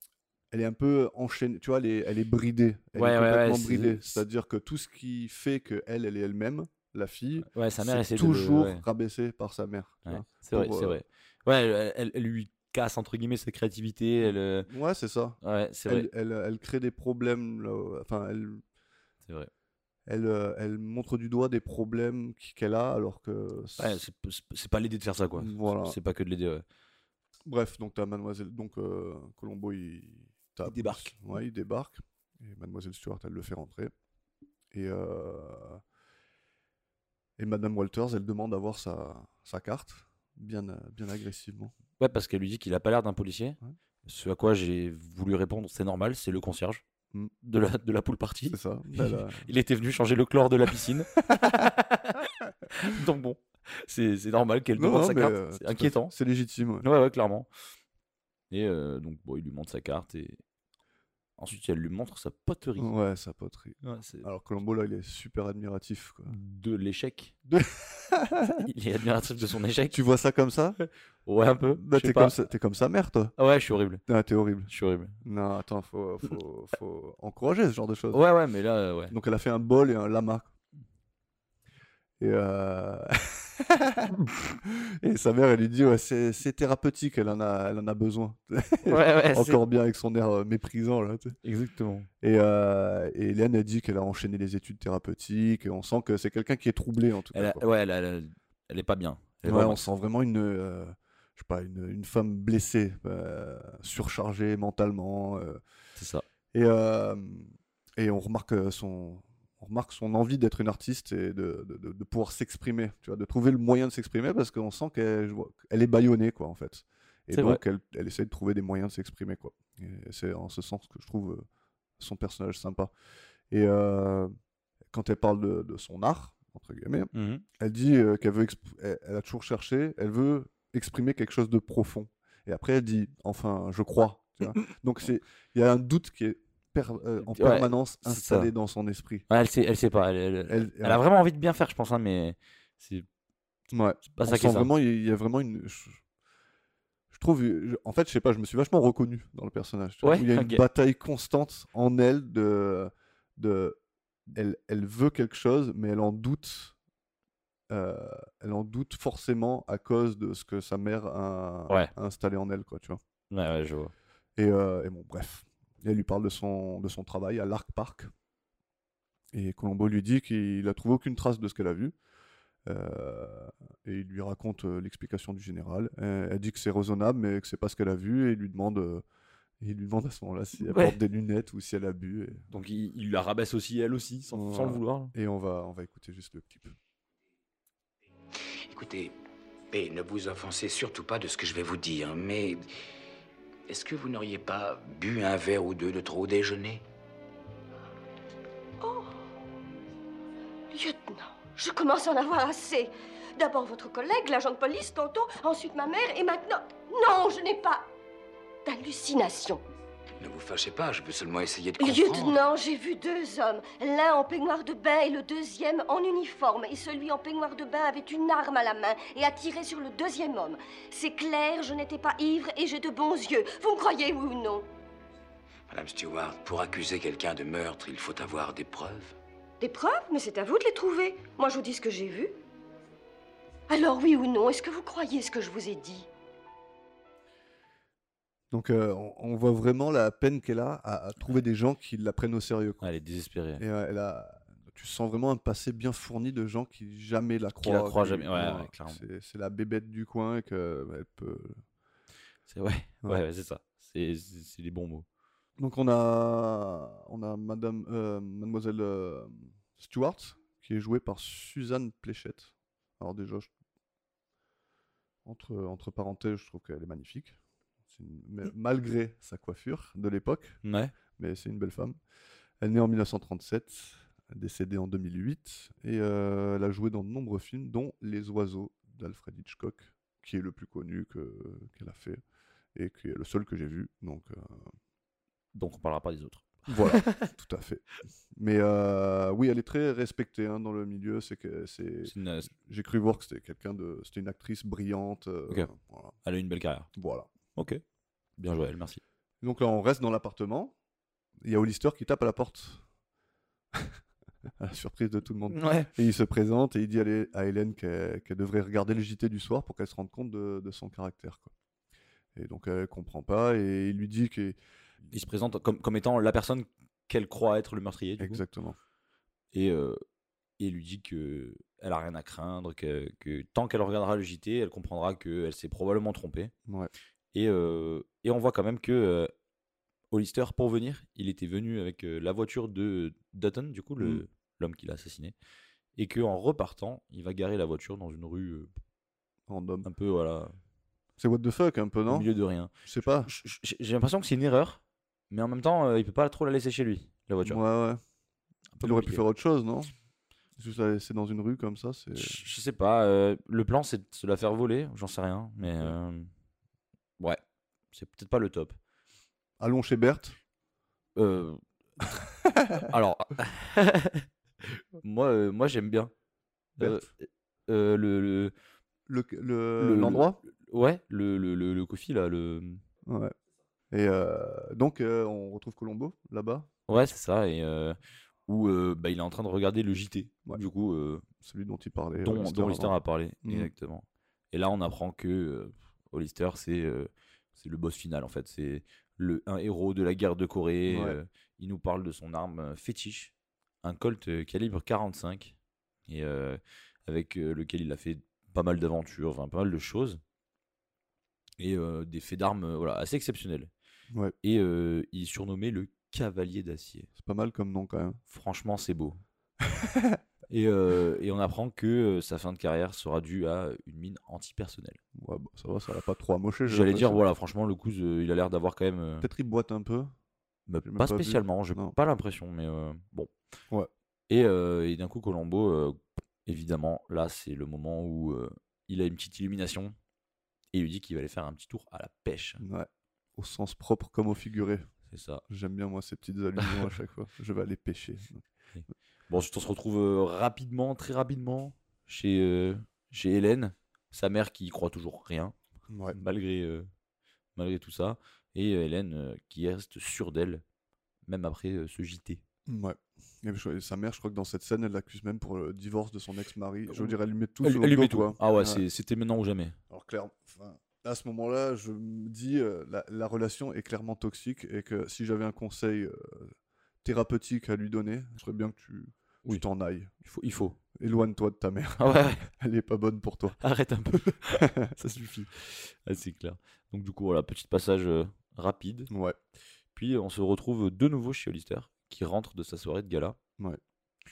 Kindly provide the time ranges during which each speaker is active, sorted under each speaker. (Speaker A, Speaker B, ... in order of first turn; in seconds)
Speaker A: 0.5-11.0, 14.2-18.6, 20.1-24.0, 25.4-26.0, 27.4-33.9, 34.7-35.8, 37.4-41.7, 48.5-49.5, 51.3-51.6, 54.8-56.8, 62.8-66.3, 67.5-68.7, 69.9-70.8, 71.8-73.3, 74.1-74.7, 75.2-78.2, 79.1-80.5, 82.2-91.3, 92.2-97.6, 99.5-105.6, 106.5-121.4, 122.0-122.9, 123.5-124.3, 124.9-139.2, 140.5-141.0, 143.7-146.0, 147.1-153.8, 154.3-156.7, 157.7-163.0, 164.4-168.1, 169.3-171.9, 172.7-179.0, 179.6-182.4, 184.3-186.7, 238.5-242.8, 243.6-251.6, 255.6-263.5, 265.2-267.4, 267.9-270.6, 271.2-272.0, 272.6-282.2, 282.7-284.6, 286.7-296.1, 296.9-297.3, 299.4-300.7, 301.4-302.8, 304.6-311.5, 312.3-314.6, 318.2-318.8, 339.5-339.9, 341.2-342.3, 342.8-343.3, 347.4-348.0, 348.8-349.9, 350.6-352.4, 359.6-360.4, 362.5-362.8, 366.8-367.1, 369.1-370.4, 373.0-373.3, 373.9-376.7, 381.4-383.7, 390.9-391.2, 407.1-408.2, 409.6-410.2, 415.1-417.2, 419.2-420.1, 420.8-421.9, 432.6-434.9, 435.5-438.4, 445.9-446.2, 452.7-458.8, 459.9-470.1, 470.9-473.6, 474.5-475.0, 479.1-479.4
Speaker B: 3.0-4.2, 7.5-8.8, 10.1-14.7, 15.4-16.1, 23.8-26.6, 30.6-31.1, 42.0-46.8, 47.4-56.1, 56.8-57.5, 58.5-60.4, 61.4-62.9, 63.8-64.2, 66.3-67.3, 68.6-70.0, 70.8-72.4, 73.4-74.0, 74.7-75.2, 78.1-79.1, 88.8-89.6, 91.4-92.1, 97.3-99.8, 106.0-106.2, 117.3-117.6, 127.1-127.4, 134.4-134.7, 137.3-138.5, 139.3-143.1, 144.0-144.7, 150.0-150.6, 163.3-163.9, 180.6-181.0, 182.5-185.1, 242.8-243.6, 247.6-249.0, 252.5-255.1, 270.6-270.9, 285.5-287.3, 292.1-292.5, 296.2-296.9, 297.5-297.8, 298.4-299.0, 305.5-305.9, 315.1-318.4, 319.5-320.0, 320.6-326.5, 327.3-329.3, 330.1-335.3, 336.0-338.7, 339.8-340.5, 342.1-342.7, 343.2-347.6, 348.7-349.2, 352.1-356.3, 357.9-358.8, 361.1-361.6, 362.8-364.2, 365.0-366.1, 366.8-368.5, 369.8-372.8, 376.9-381.2, 382.2-395.5, 396.1-400.2, 401.6-403.7, 404.4-407.1, 408.3-409.2, 410.5-415.0, 416.6-419.3, 420.7-423.3, 424.3-429.9, 430.7-432.6, 435.1-435.4, 438.7-445.5, 446.1-446.9, 447.6-450.6, 451.3-452.4, 456.9-459.8, 470.2-470.8, 472.0-472.5, 473.6-479.1, 479.9-483.4
Speaker C: 188.7-189.1, 189.7-192.6, 193.7-196.8, 210.2-212.4, 225.7-229.2
Speaker D: 198.8-199.1, 200.7-207.9, 208.6-209.6, 211.8-224.7, 229.6-232.3, 233.7-236.1